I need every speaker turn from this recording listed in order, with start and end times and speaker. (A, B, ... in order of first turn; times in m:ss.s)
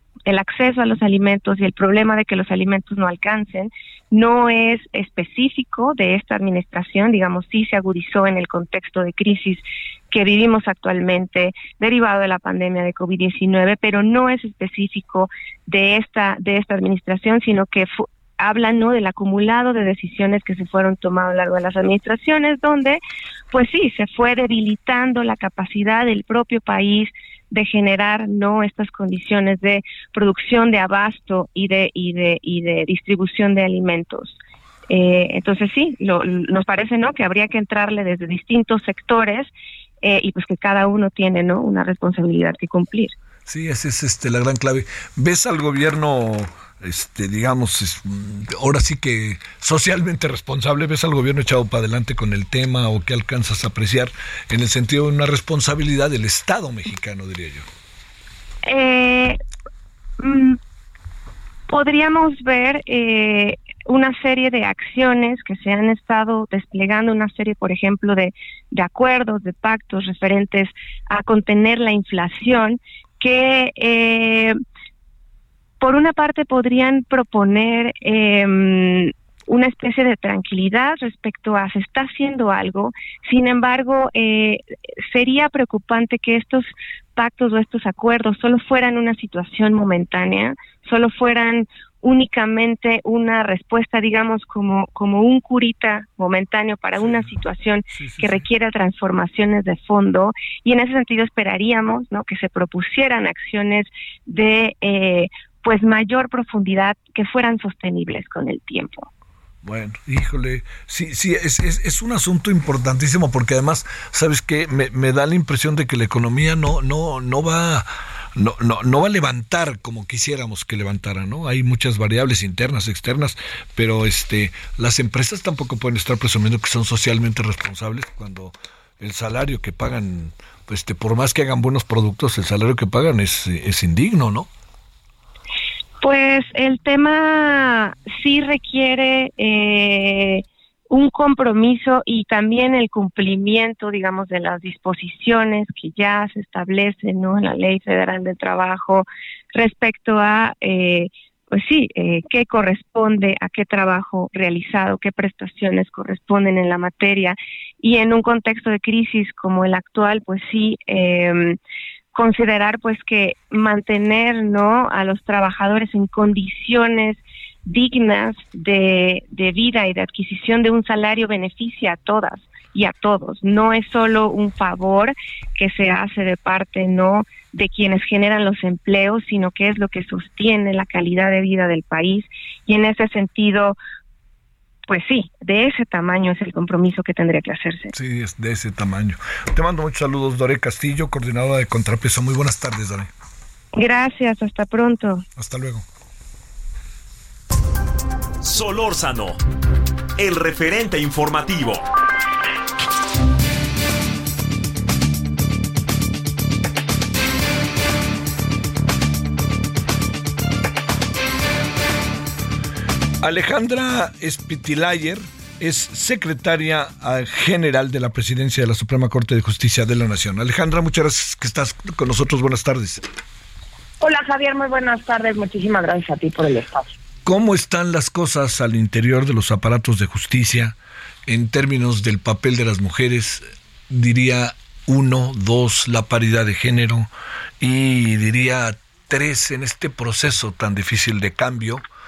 0:00.2-0:23.0 A
0:23.5-0:34.4 A
0:34.9-0:43.1 A
0:43.5-0:57.6 B
0:58.6-0:59.4 A
1:00.2-1:00.6 A
1:01.7-1:14.6 A
1:15.8-1:49.1 A
1:37.9-1:38.4 B
1:49.6-2:14.5 B
2:16.0-2:41.6 A
2:42.1-3:03.8 A
3:04.9-3:07.9 A
3:07.9-3:13.1 B
3:13.7-3:15.2 A
3:15.4-3:15.8 B
3:18.4-3:19.4 C
3:20.2-3:21.8 C
3:33.2-3:43.0 B
3:44.0-3:46.9 D
3:47.2-3:50.8 B
3:51.3-3:57.1 B
3:57.6-4:01.8 B